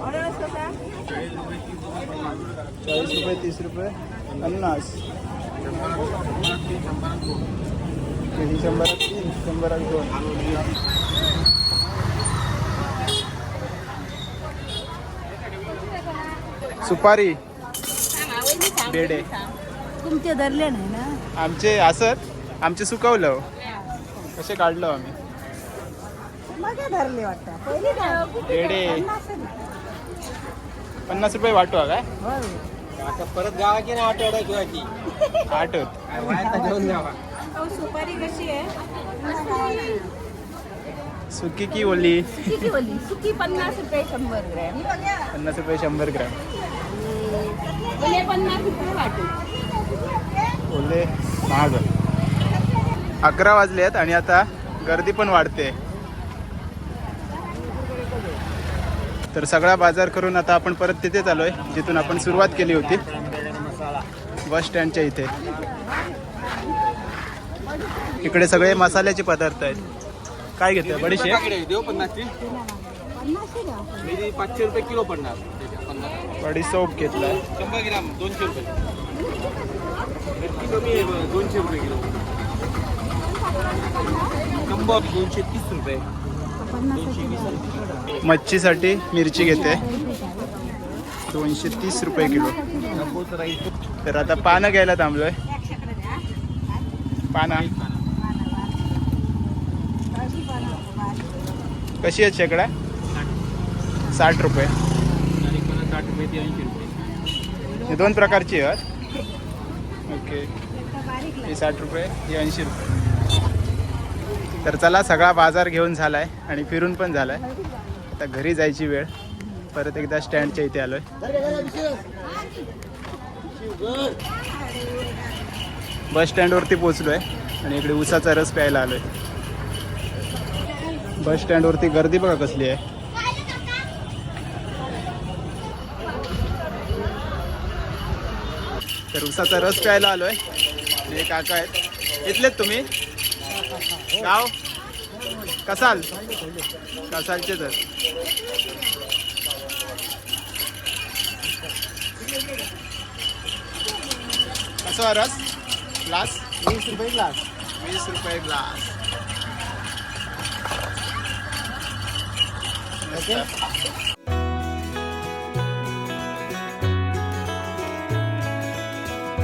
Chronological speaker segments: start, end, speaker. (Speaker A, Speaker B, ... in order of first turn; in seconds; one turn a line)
Speaker A: 0.2-0.7
Speaker B: 2.9-5.0
Speaker B: 8.3-10.5
Speaker B: 16.8-17.4
Speaker A: 18.1-21.2
Speaker B: 18.8-19.3
Speaker B: 21.4-23.4
Speaker B: 24.4-25.1
Speaker A: 26.5-29.7
Speaker B: 28.4-29.1
Speaker B: 31.1-32.0
Speaker A: 32.2-32.6
Speaker C: 33.1-34.9
Speaker B: 35.5-36.0
Speaker A: 36.1-40.1
Speaker C: 36.2-37.1
Speaker B: 41.3-42.7
Speaker A: 42.4-45.3
Speaker B: 45.3-46.4
Speaker A: 46.9-50.3
Speaker B: 50.7-51.8
Speaker B: 53.2-55.8
Speaker B: 59.3-63.0
Speaker C: 63.2-63.8
Speaker B: 64.5-65.3
Speaker B: 68.2-69.8
Speaker B: 70.6-71.5
Speaker C: 71.4-72.3
Speaker A: 71.5-74.4
Speaker C: 74.1-76.1
Speaker B: 76.4-77.4
Speaker C: 77.5-78.7
Speaker C: 80.5-82.1
Speaker A: 83.5-84.9
Speaker C: 84.7-86.0
Speaker A: 86.6-87.6
Speaker C: 87.1-87.7
Speaker B: 88.2-89.8
Speaker A: 89.7-90.7
Speaker B: 91.3-92.6
Speaker A: 92.4-93.2
Speaker C: 93.1-93.7
Speaker B: 94.0-95.4
Speaker A: 95.5-96.2
Speaker B: 97.3-97.7
Speaker A: 98.1-98.9
Speaker A: 100.0-101.4
Speaker B: 102.0-102.7
Speaker B: 104.1-104.7
Speaker C: 105.4-107.1
Speaker A: 107.7-108.2
Speaker B: 107.8-108.8
Speaker B: 110.1-110.5
Speaker A: 110.8-111.5
Speaker B: 111.4-112.9
Speaker B: 114.6-117.4
Speaker B: 118.0-119.1
Speaker B: 119.7-121.0
Speaker A: 121.4-122.5
Speaker A: 123.8-125.4
Speaker B: 126.1-129.0
Speaker B: 131.2-132.8
Speaker B: 139.1-140.4
Speaker B: 141.1-141.7
Speaker B: 142.2-142.9
Speaker B: 144.1-144.5
Speaker B: 145.7-146.1
Speaker B: 147.1-147.8
Speaker B: 154.8-155.4
Speaker B: 156.0-156.4
Speaker C: 156.7-157.4
Speaker A: 156.8-157.3
Speaker B: 157.8-158.9
Speaker B: 163.0-163.5